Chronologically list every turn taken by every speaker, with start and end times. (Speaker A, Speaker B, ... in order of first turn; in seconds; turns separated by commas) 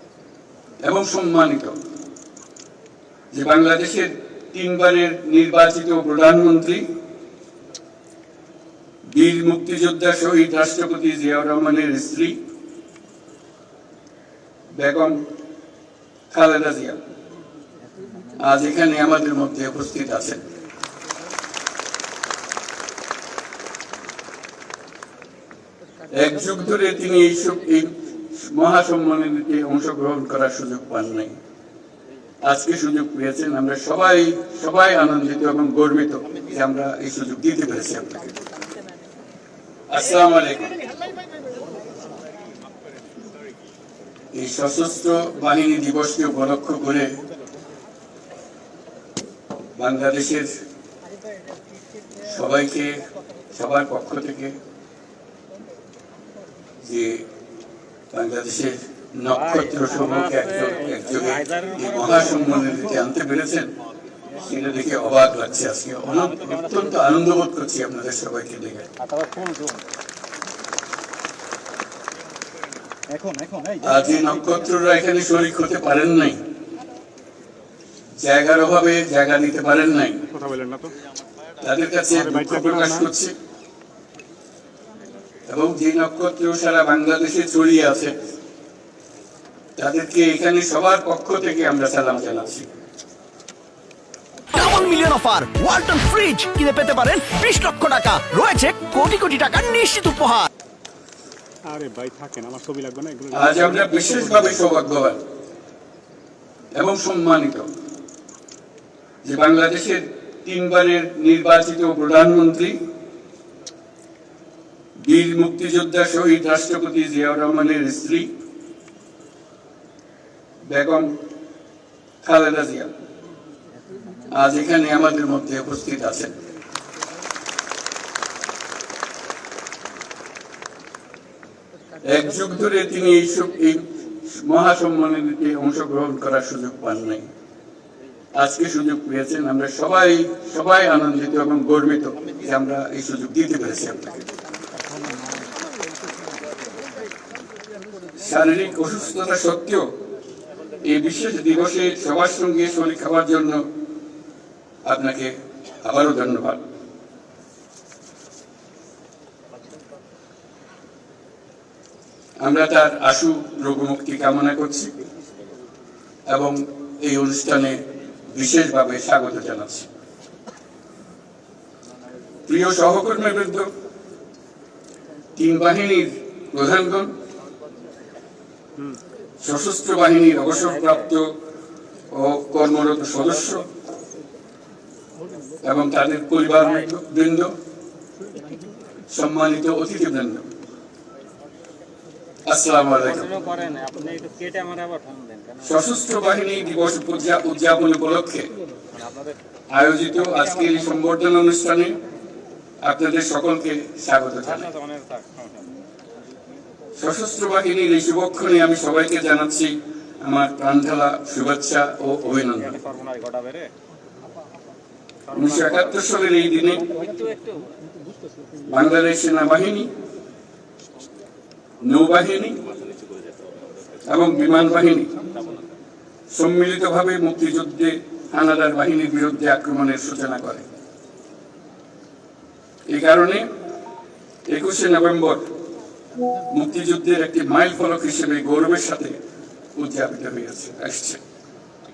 Speaker A: 0.8-1.8, Speaker A: 3.3-6.8, Speaker A: 9.0-12.4, Speaker A: 14.7-15.2, Speaker A: 16.3-17.0, Speaker A: 18.4-20.4, Speaker A: 26.1-31.4, Speaker A: 32.4-38.3, Speaker A: 39.9-40.8, Speaker A: 44.3-47.2, Speaker A: 49.8-50.6, Speaker A: 52.2-54.6, Speaker A: 56.8-57.2, Speaker A: 58.1-63.7, Speaker A: 64.3-68.9, Speaker B: 69.1-69.6, Speaker B: 73.2-73.7, Speaker A: 73.8-76.4, Speaker A: 78.2-80.2, Speaker C: 80.3-80.9, Speaker A: 81.6-83.3, Speaker C: 82.2-83.1, Speaker A: 85.5-88.2, Speaker A: 89.8-92.7, Speaker D: 94.5-100.5, Speaker C: 101.7-104.1, Speaker A: 103.3-105.2, Speaker A: 106.8-107.7, Speaker A: 109.2-112.8, Speaker A: 115.0-118.3, Speaker A: 120.7-121.1, Speaker A: 122.2-122.9, Speaker A: 124.3-126.3, Speaker A: 132.0-137.3, Speaker A: 138.3-144.2, Speaker A: 148.2-149.9, Speaker A: 150.8-153.6, Speaker A: 154.8-156.6, Speaker A: 162.4-164.9, Speaker A: 166.3-169.9, Speaker A: 172.5-173.7, Speaker A: 175.3-177.1, Speaker A: 179.4-181.3, Speaker A: 182.1-183.7, Speaker A: 185.6-187.5, Speaker A: 189.1-190.5, Speaker A: 192.4-193.4, Speaker B: 193.4-195.5, Speaker A: 195.6-198.5, Speaker A: 199.7-201.9, Speaker A: 202.8-204.7, Speaker A: 207.0-212.8, Speaker B: 213.1-213.4, Speaker A: 215.3-216.9, Speaker A: 218.7-219.9, Speaker A: 221.8-222.6, Speaker A: 224.1-225.1, Speaker A: 226.3-230.7, Speaker A: 232.9-233.5, Speaker A: 234.5-235.5, Speaker A: 236.5-239.2, Speaker A: 239.8-241.2